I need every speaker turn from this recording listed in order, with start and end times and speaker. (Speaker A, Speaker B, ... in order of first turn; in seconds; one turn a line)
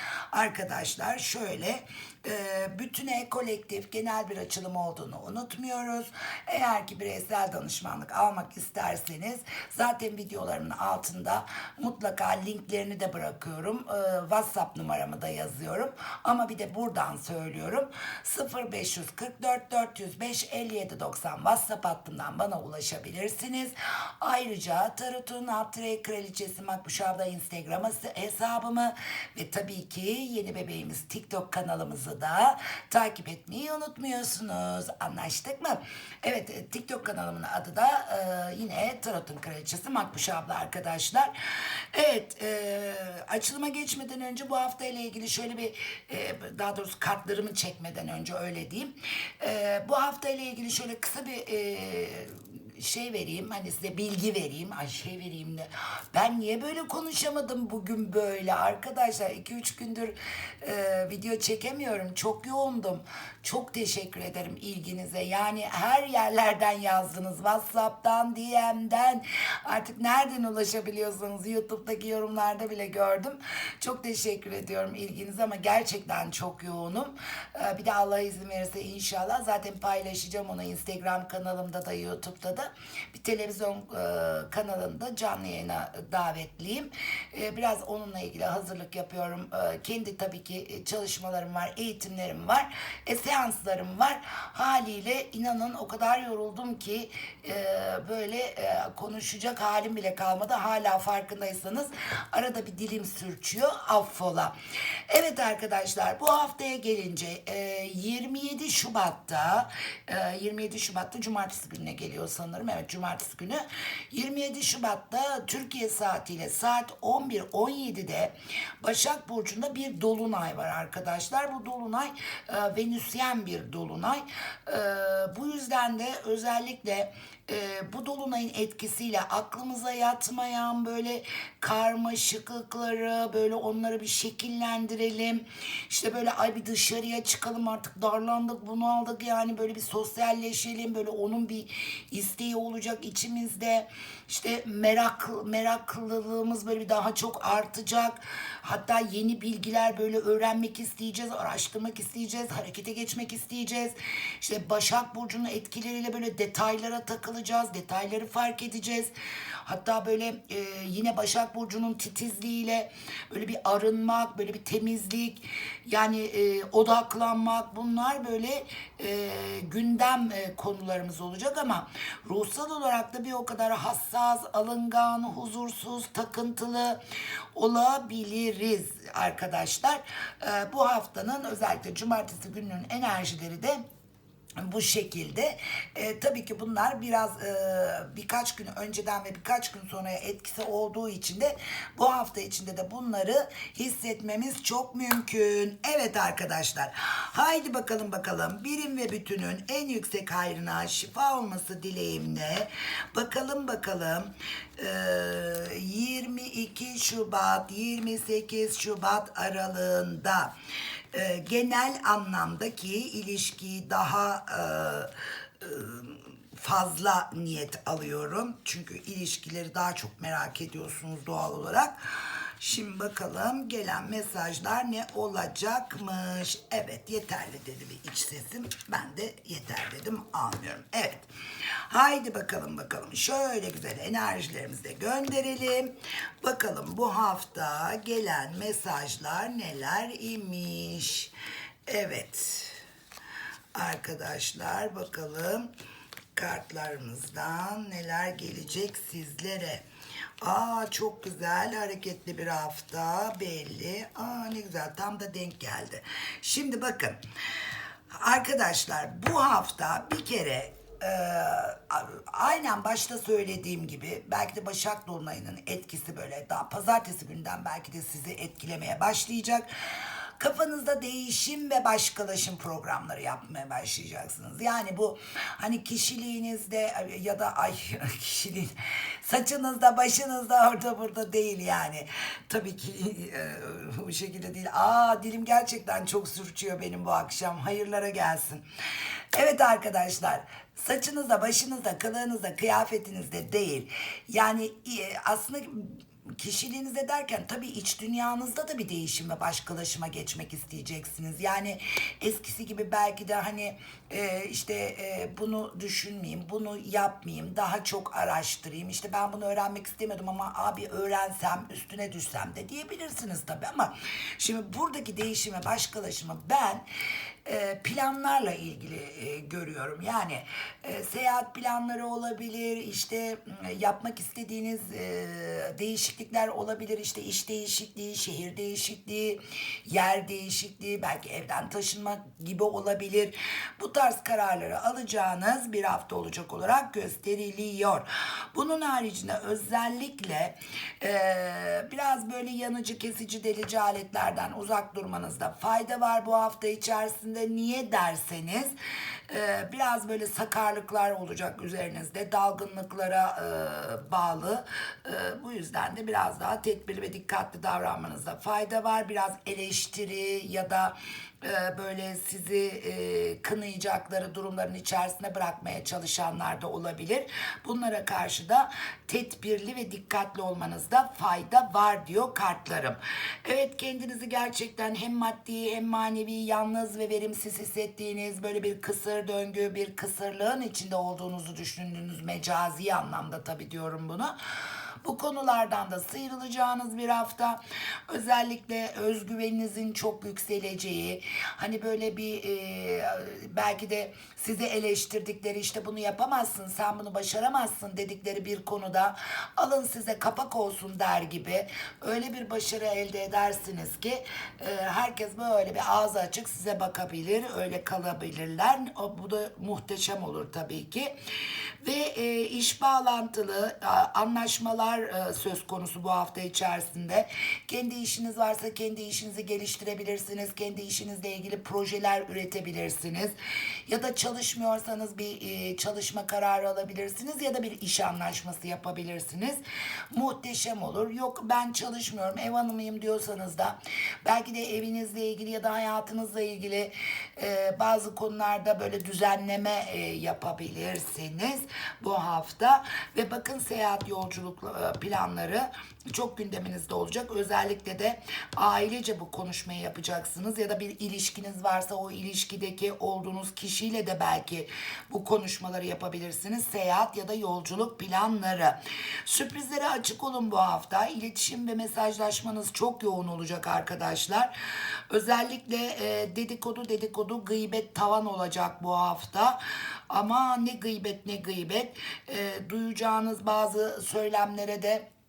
Speaker A: 0.3-41.3
Speaker A: 41.9-104.5
Speaker A: 105.1-159.1
Speaker A: 159.6-177.0
Speaker A: 177.5-183.8
Speaker A: 184.6-210.5
Speaker A: 211.1-231.3
Speaker A: 231.9-241.3
Speaker A: 241.9-242.8
Speaker A: 243.7-245.7
Speaker A: 246.3-249.8
Speaker A: 250.4-257.2
Speaker A: 258.1-269.7
Speaker A: 270.4-288.6
Speaker A: 289.3-316.8
Speaker A: 317.4-348.7
Speaker A: 349.3-384.3
Speaker A: 385.0-411.1
Speaker A: 411.8-423.3
Speaker A: 423.9-429.6
Speaker A: 430.1-464.5
Speaker A: 465.1-469.6
Speaker A: 470.1-475.0